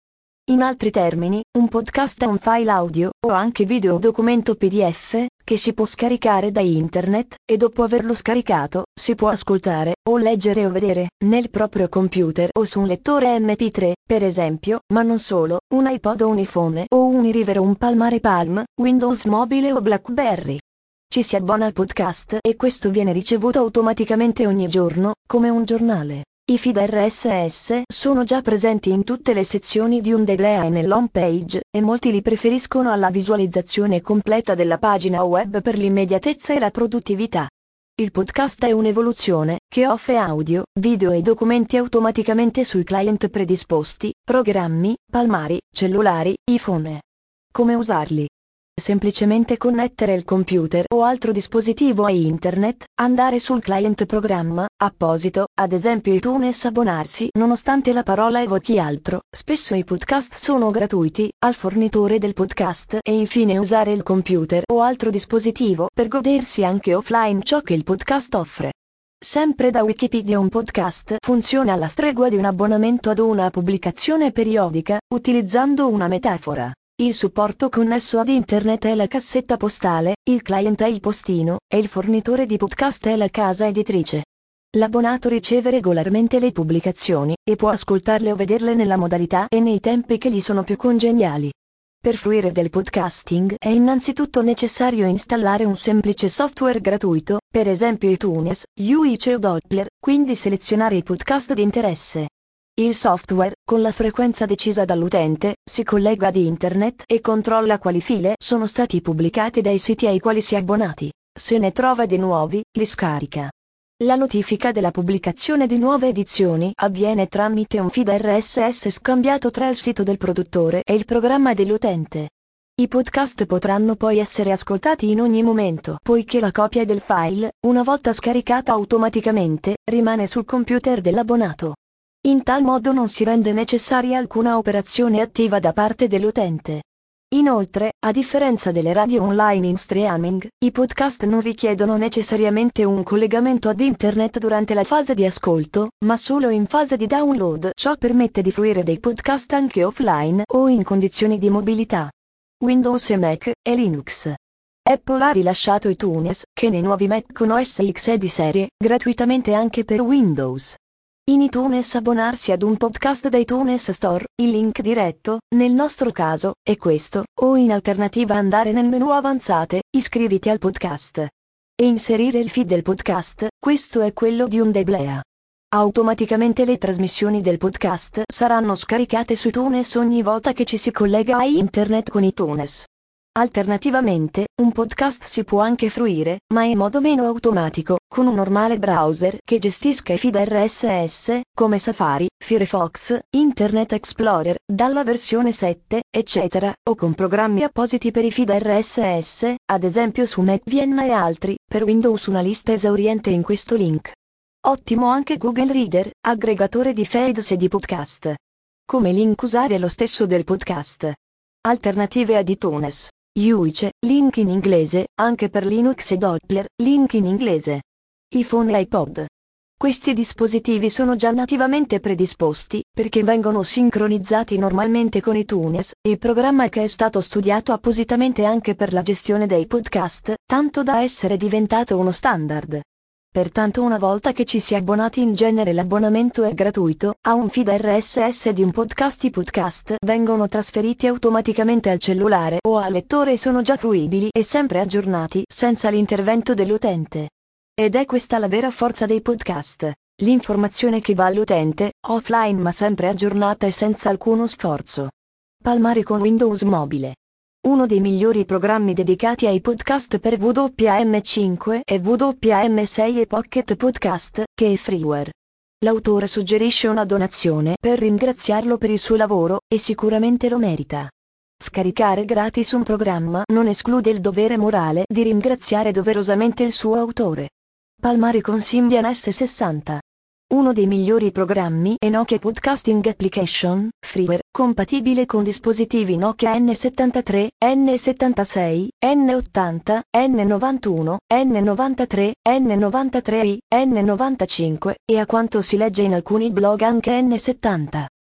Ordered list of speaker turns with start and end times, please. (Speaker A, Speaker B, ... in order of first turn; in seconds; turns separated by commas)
Speaker A: 0.5-219.3, Speaker A: 219.8-255.1, Speaker A: 255.6-298.1